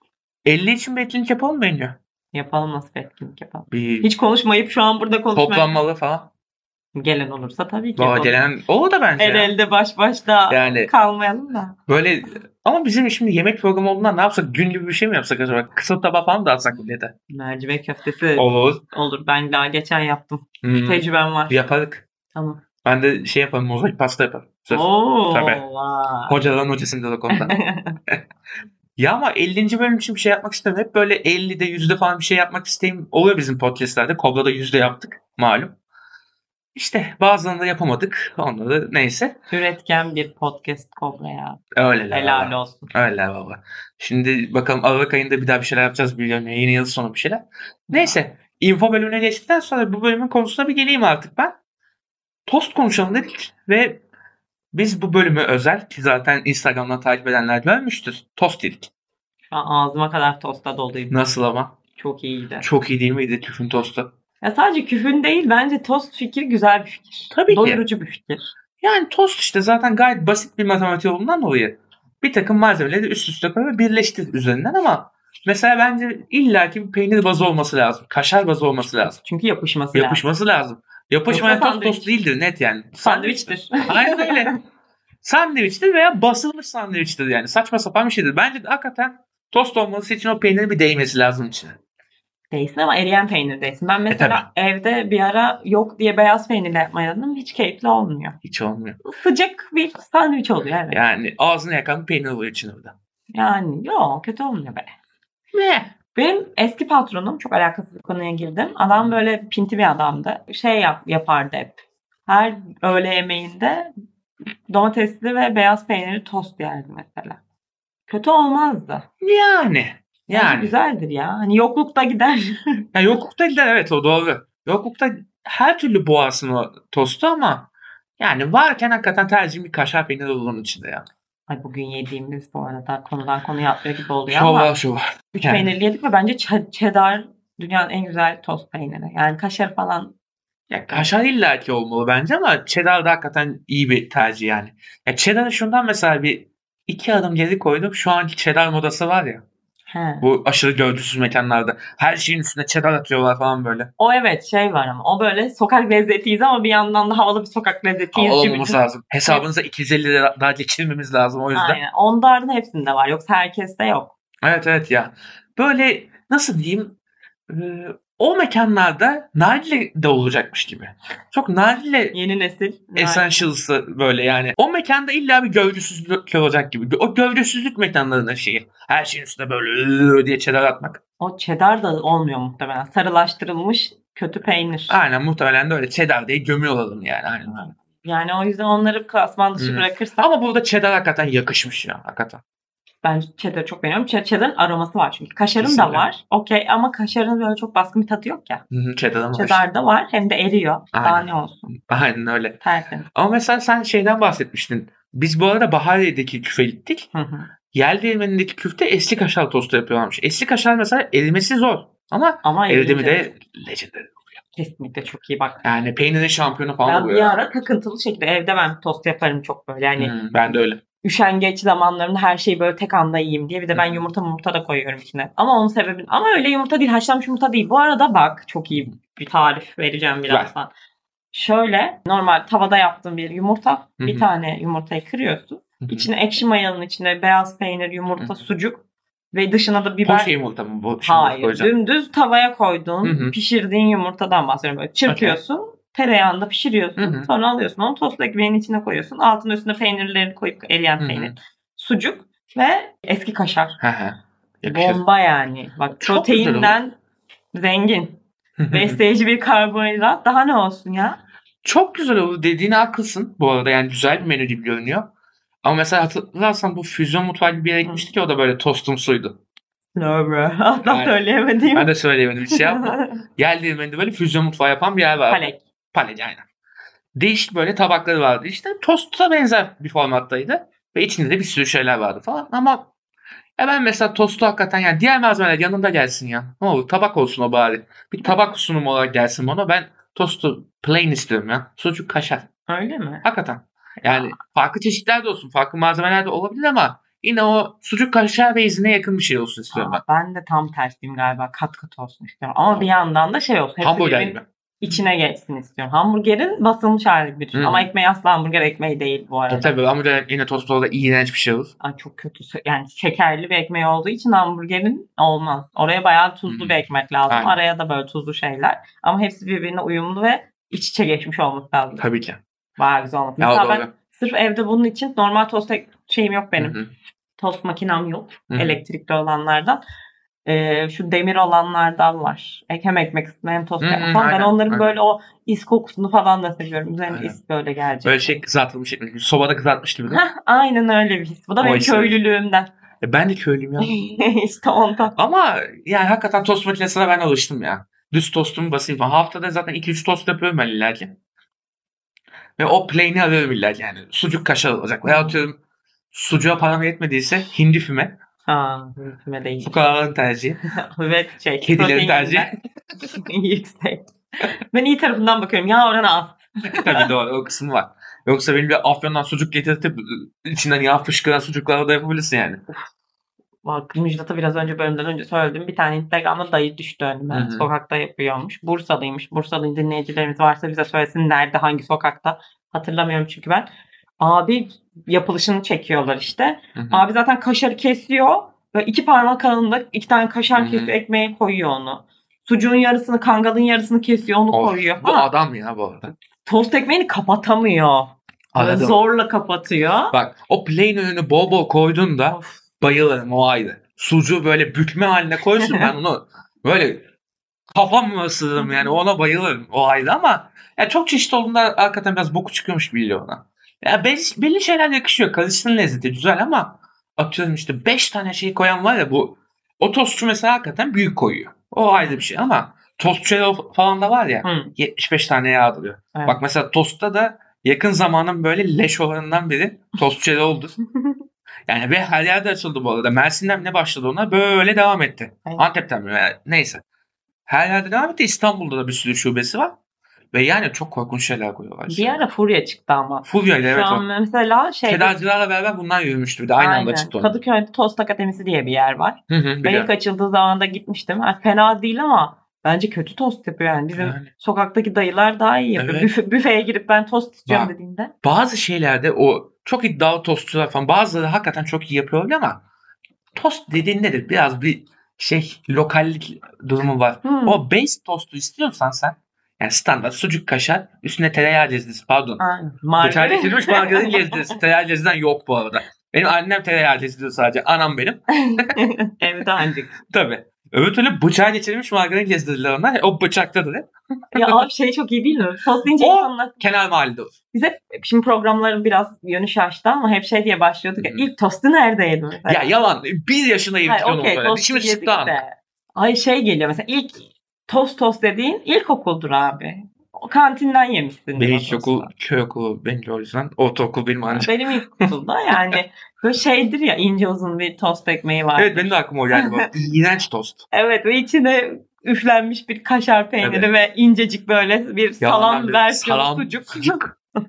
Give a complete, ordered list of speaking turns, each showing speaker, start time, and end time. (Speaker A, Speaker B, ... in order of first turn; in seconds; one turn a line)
Speaker A: 0.4-2.0
Speaker B: 2.3-5.8
Speaker A: 3.7-4.1
Speaker A: 5.3-6.3
Speaker B: 6.9-8.4
Speaker A: 8.0-9.5
Speaker B: 9.2-11.8
Speaker A: 10.5-10.9
Speaker A: 11.9-17.1
Speaker B: 17.3-21.6
Speaker A: 18.4-18.8
Speaker A: 20.6-22.1
Speaker B: 22.3-22.6
Speaker A: 22.8-25.6
Speaker B: 24.7-26.4
Speaker A: 26.3-27.5
Speaker B: 27.3-28.0
Speaker A: 29.0-35.7
Speaker A: 36.7-39.3
Speaker B: 39.5-42.9
Speaker A: 41.7-51.5
Speaker B: 47.9-48.2
Speaker A: 52.5-54.0
Speaker A: 54.7-58.9
Speaker B: 59.5-61.1
Speaker A: 61.1-61.7
Speaker B: 62.0-62.6
Speaker A: 62.6-64.1
Speaker B: 64.4-68.5
Speaker A: 67.3-67.8
Speaker A: 68.8-79.2
Speaker B: 79.2-80.3
Speaker A: 79.9-84.5
Speaker B: 81.3-82.1
Speaker B: 83.0-84.6
Speaker A: 85.2-91.8
Speaker B: 92.5-98.4
Speaker A: 94.1-94.4
Speaker A: 98.4-99.0
Speaker B: 99.0-101.0
Speaker A: 100.9-102.9
Speaker B: 103.3-104.9
Speaker A: 105.5-105.9
Speaker B: 106.1-113.9
Speaker B: 114.7-117.4
Speaker B: 118.1-119.0
Speaker A: 119.2-120.7
Speaker B: 120.3-122.8
Speaker A: 122.9-131.0
Speaker B: 131.5-134.7
Speaker A: 134.3-135.7
Speaker B: 135.3-140.1
Speaker A: 140.7-149.4
Speaker B: 149.9-150.2
Speaker A: 150.2-153.9
Speaker B: 154.0-159.4
Speaker A: 158.1-161.8
Speaker B: 161.5-164.1
Speaker A: 164.4-166.9
Speaker A: 167.5-172.2
Speaker B: 172.1-173.4
Speaker A: 172.9-181.0
Speaker B: 181.2-185.0
Speaker A: 184.9-187.6
Speaker B: 187.5-190.2
Speaker A: 189.6-192.4
Speaker B: 193.0-198.6
Speaker A: 195.6-196.1
Speaker A: 198.7-199.6
Speaker B: 199.3-201.7
Speaker A: 200.9-202.6
Speaker B: 202.6-203.1
Speaker A: 203.1-207.1
Speaker B: 207.1-207.5
Speaker A: 207.7-214.2
Speaker B: 212.4-213.3
Speaker B: 214.6-215.6
Speaker A: 215.6-217.4
Speaker B: 216.8-230.7
Speaker A: 220.0-220.8
Speaker A: 223.7-224.0
Speaker B: 231.3-238.8
Speaker A: 234.0-234.2
Speaker A: 235.8-236.1
Speaker B: 239.3-240.3
Speaker A: 240.0-241.7
Speaker B: 241.0-253.8
Speaker A: 243.0-243.3
Speaker A: 245.1-245.4
Speaker A: 247.0-247.3
Speaker A: 251.0-251.3
Speaker A: 253.8-255.0
Speaker B: 254.6-256.9
Speaker A: 256.0-256.8
Speaker B: 257.5-258.2
Speaker A: 258.6-259.0
Speaker B: 258.7-261.2
Speaker A: 261.6-265.1
Speaker A: 265.6-269.4
Speaker B: 267.8-268.1
Speaker B: 269.9-271.9
Speaker A: 270.8-271.2
Speaker A: 271.7-276.4
Speaker B: 272.5-273.2
Speaker B: 275.3-275.6
Speaker A: 277.1-282.9
Speaker A: 283.6-292.5
Speaker B: 292.7-293.2
Speaker A: 293.2-300.0
Speaker B: 294.0-294.4
Speaker B: 299.7-309.7
Speaker A: 303.8-305.0
Speaker A: 307.5-307.9
Speaker A: 309.5-311.7
Speaker B: 311.8-322.0
Speaker A: 316.5-316.8
Speaker A: 317.3-317.6
Speaker A: 322.0-322.4
Speaker B: 322.8-326.8
Speaker A: 323.4-323.9
Speaker A: 326.6-326.9
Speaker B: 327.4-329.8
Speaker A: 328.5-328.8
Speaker B: 330.4-338.4
Speaker A: 333.8-334.9
Speaker A: 337.1-337.4
Speaker A: 338.0-340.2
Speaker B: 340.1-342.7
Speaker A: 341.6-342.2
Speaker A: 343.0-343.9
Speaker B: 343.8-345.1
Speaker A: 345.1-351.1
Speaker A: 352.6-355.6
Speaker B: 355.0-355.4
Speaker A: 356.1-358.1
Speaker B: 358.4-359.8
Speaker A: 359.6-360.6
Speaker B: 360.7-367.1
Speaker A: 361.6-362.5
Speaker A: 366.7-372.6
Speaker B: 373.6-395.3
Speaker A: 377.3-377.7
Speaker A: 386.7-387.0
Speaker A: 390.6-390.9
Speaker A: 394.5-396.1
Speaker B: 396.1-400.1
Speaker A: 398.5-399.0
Speaker A: 400.1-407.1
Speaker B: 402.3-402.6
Speaker B: 405.6-405.9
Speaker A: 407.7-430.8
Speaker B: 424.4-424.7
Speaker B: 426.1-426.4
Speaker A: 431.7-436.8
Speaker A: 437.5-439.8
Speaker A: 440.3-442.2
Speaker B: 441.9-445.2
Speaker A: 443.2-444.1
Speaker A: 444.8-447.4
Speaker B: 446.6-458.1
Speaker A: 449.3-449.9
Speaker A: 453.9-454.3
Speaker A: 455.8-456.1
Speaker A: 458.2-462.6
Speaker A: 463.3-472.4
Speaker B: 467.2-467.6
Speaker B: 472.4-474.5
Speaker A: 473.0-478.7
Speaker B: 478.4-479.9
Speaker A: 480.1-484.6
Speaker B: 484.3-486.6
Speaker A: 486.0-487.3
Speaker B: 487.5-492.7
Speaker A: 491.0-491.2
Speaker A: 492.5-495.4
Speaker B: 493.8-502.1
Speaker A: 501.4-505.0
Speaker B: 504.3-509.7
Speaker A: 508.6-510.6
Speaker B: 510.7-517.1
Speaker A: 513.4-513.7
Speaker A: 515.2-517.1